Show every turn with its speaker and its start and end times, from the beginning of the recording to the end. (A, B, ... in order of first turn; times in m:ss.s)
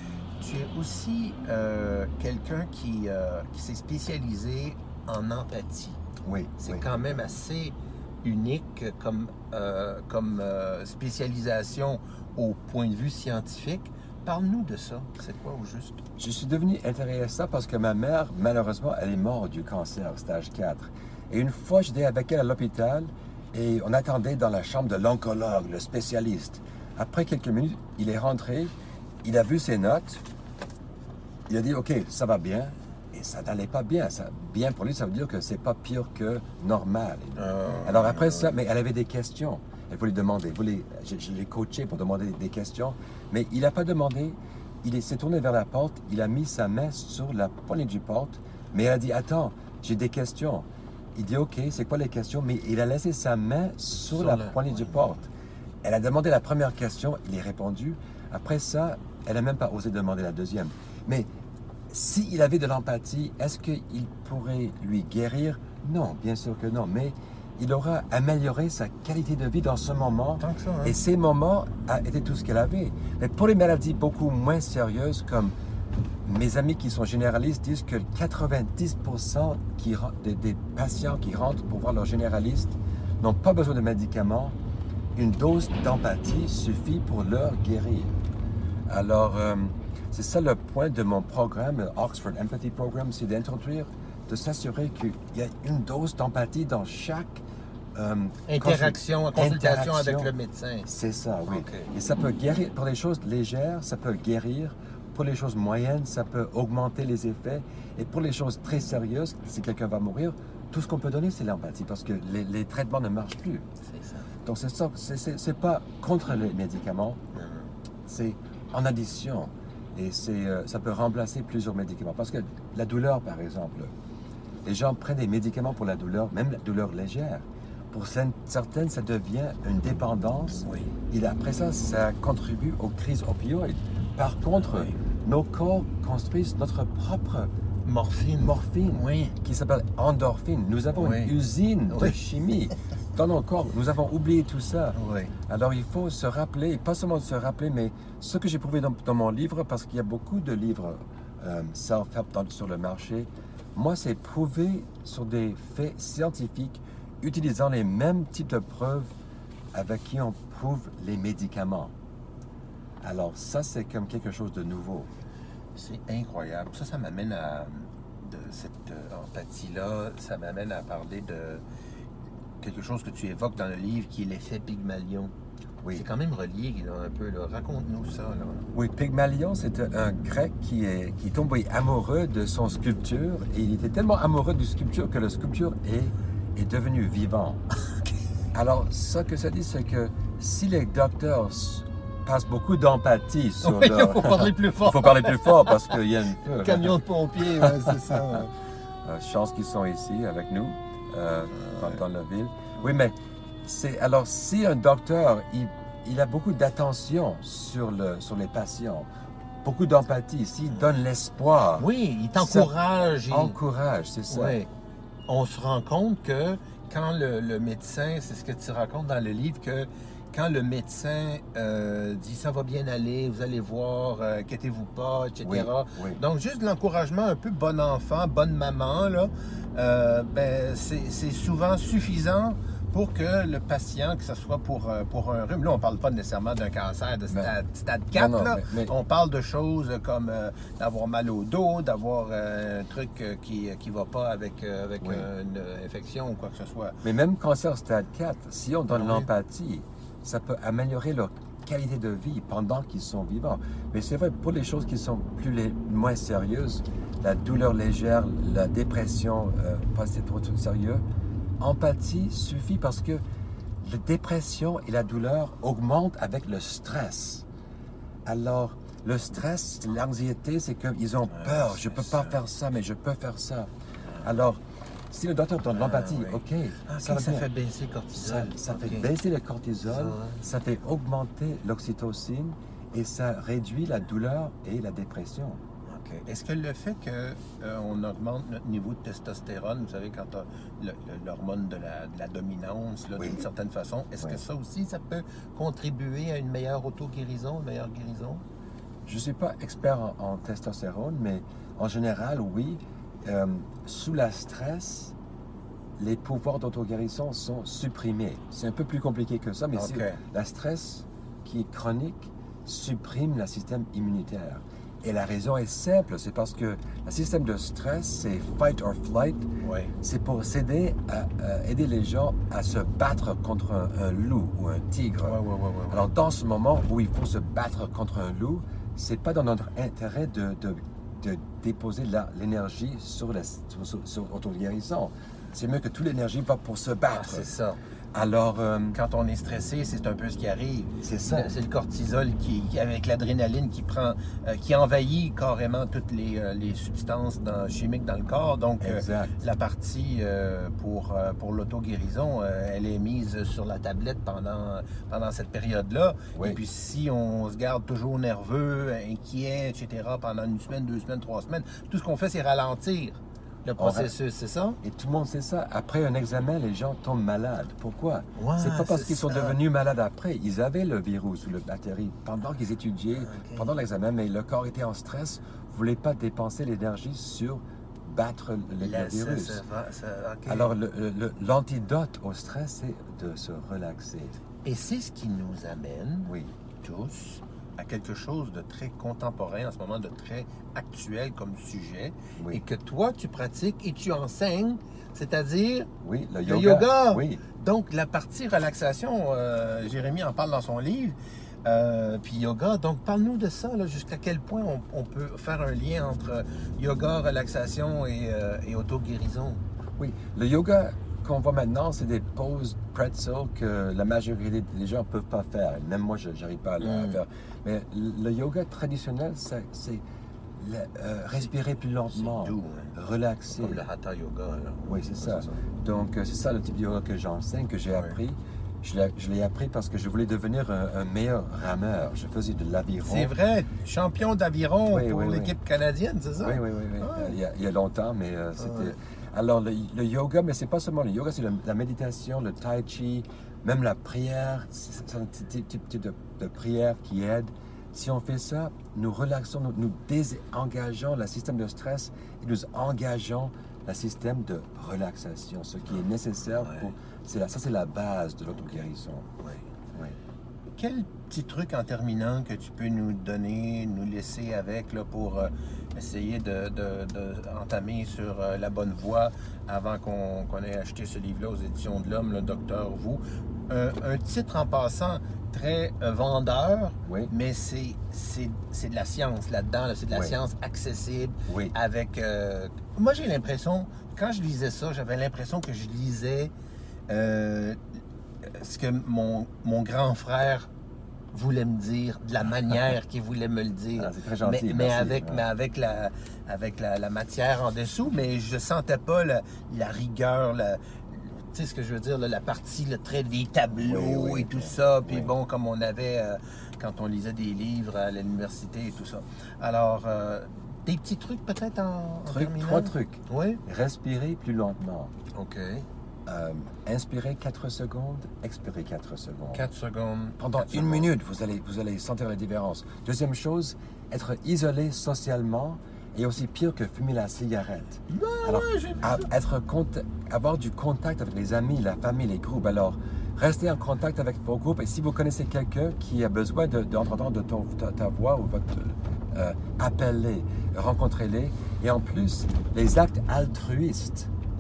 0:00.4-0:06.0 A
0:06.2-0:06.9 B
0:06.6-0:16.0 A
0:16.2-0:30.2 B
0:31.5-0:55.3 B
0:37.4-0:38.6 A
0:54.0-0:54.9 A
0:55.8-1:01.3 B
1:01.9-1:15.5 B
1:10.4-1:11.0 A
1:16.2-1:24.6 B
1:25.2-1:28.1 B
1:28.9-1:37.4 B
1:38.0-1:40.3 B
1:38.5-1:40.9 A
1:40.9-1:53.7 B
1:41.5-1:41.9 A
1:53.8-1:54.3 A
1:54.4-1:57.2 B
1:57.3-1:57.7 A
1:58.1-2:03.9 B
2:04.6-2:17.5 B
2:10.6-2:10.9 A
2:14.6-2:15.0 A
2:17.8-2:19.4 A
2:18.4-2:25.0 B
2:20.9-2:21.4 A
2:21.9-2:22.2 A
2:24.9-2:25.3 A
2:25.5-2:39.2 B
2:39.7-2:41.9 B
2:43.0-2:45.1 B
2:45.8-2:51.6 A
2:52.6-2:55.3 A
2:55.9-2:58.7 A
2:58.7-3:07.6 B
3:08.5-3:18.4 B
3:13.6-3:18.5 A
3:19.0-3:29.1 B
3:21.5-3:22.0 A
3:29.6-3:32.7 B
3:31.8-3:33.6 A
3:33.3-3:34.6 B
3:34.3-3:34.7 A
3:35.3-4:07.0 A
3:45.4-3:46.2 B
3:58.1-3:58.9 B
4:05.0-4:05.3 B
4:07.0-4:21.0 B
4:08.9-4:09.3 A
4:21.6-4:23.2 B
4:23.8-4:27.4 B
4:28.3-4:33.7 B
4:31.3-4:32.4 A
4:34.1-4:34.4 A
4:34.2-4:37.5 B
4:35.7-4:39.1 A
4:38.1-4:45.6 B
4:39.9-4:40.4 A
4:45.9-4:58.4 A
4:53.2-4:53.4 B
4:59.1-5:05.1 B
5:06.0-5:19.5 B
5:09.8-5:10.2 A
5:19.6-5:19.9 A
5:20.0-5:25.4 B
5:25.2-5:26.1 A
5:25.9-5:37.5 B
5:37.1-5:37.8 A
5:38.1-5:39.0 B
5:38.9-6:04.8 A
5:41.0-5:41.5 B
5:48.8-5:49.4 B
5:56.3-5:56.6 B
6:03.8-6:04.1 B
6:04.8-6:19.6 B
6:08.4-6:09.6 A
6:13.2-6:13.7 A
6:18.8-6:20.8 A
6:20.5-6:24.4 B
6:24.6-6:35.9 A
6:26.3-6:26.6 B
6:36.0-6:37.4 B
6:36.4-6:49.6 A
6:50.0-7:00.0 B
6:56.8-6:57.2 A
7:00.6-7:03.8 B
7:02.1-7:03.0 A
7:03.5-7:05.6 A
7:04.9-7:13.3 B
7:07.9-7:08.2 A
7:13.0-7:17.4 A
7:14.9-7:15.6 B
7:16.4-7:39.3 B
7:18.6-7:19.0 A
7:36.5-7:36.9 A
7:38.5-7:38.8 A
7:39.4-7:39.7 A
7:40.8-8:06.5 A
7:57.1-7:57.3 B
8:00.1-8:00.4 B
8:01.5-8:01.8 B
8:07.1-8:07.8 A
8:08.5-8:10.7 A
8:11.3-8:33.6 A
8:14.0-8:15.5 B
8:23.8-8:25.3 B
8:32.3-8:35.1 B
8:35.3-8:35.9 A
8:36.3-8:39.6 B
8:39.5-8:41.1 A
8:40.4-9:04.3 B
8:48.1-8:49.3 A